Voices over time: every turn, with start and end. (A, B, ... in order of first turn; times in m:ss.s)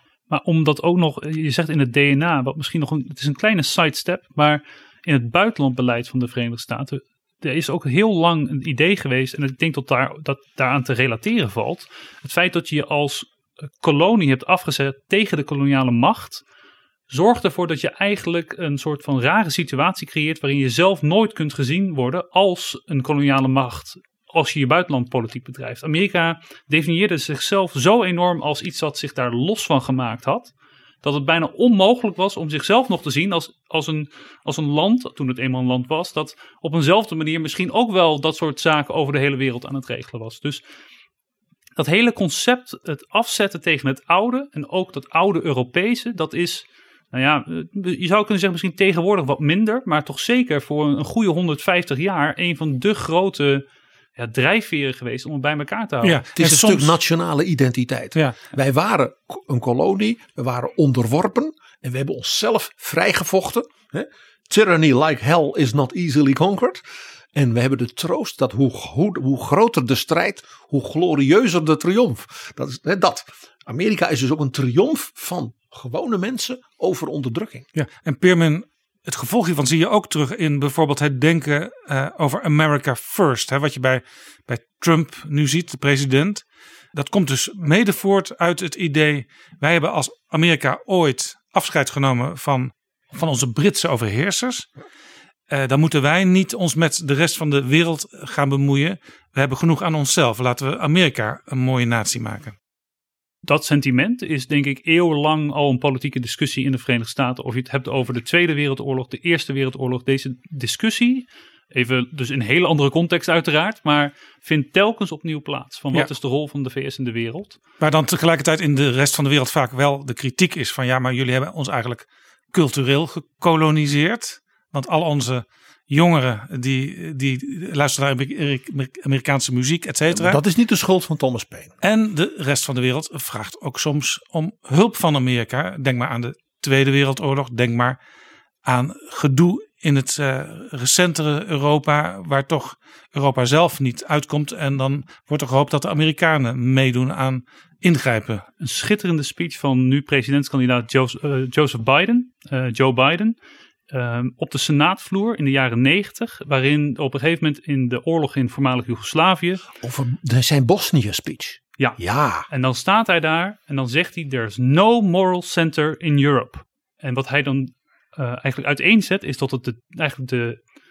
0:00.3-0:13.3 A
0:13.8-0:16.4 A
0:17.1-0:30.5 A
0:31.0-0:40.6 A
0:41.8-0:53.6 A
0:54.2-0:56.2 A
0:56.0-0:56.9 B
0:56.4-1:17.7 C
1:17.8-1:26.4 B
1:26.9-1:34.7 B
1:35.5-1:42.6 B
1:43.4-1:57.6 A
1:57.8-2:10.4 B
2:10.1-2:11.8 C
2:11.8-2:18.0 B
2:18.6-2:28.5 B
2:28.6-2:33.4 A
2:33.9-2:39.6 A
2:39.8-2:42.5 C
2:41.8-2:50.6 A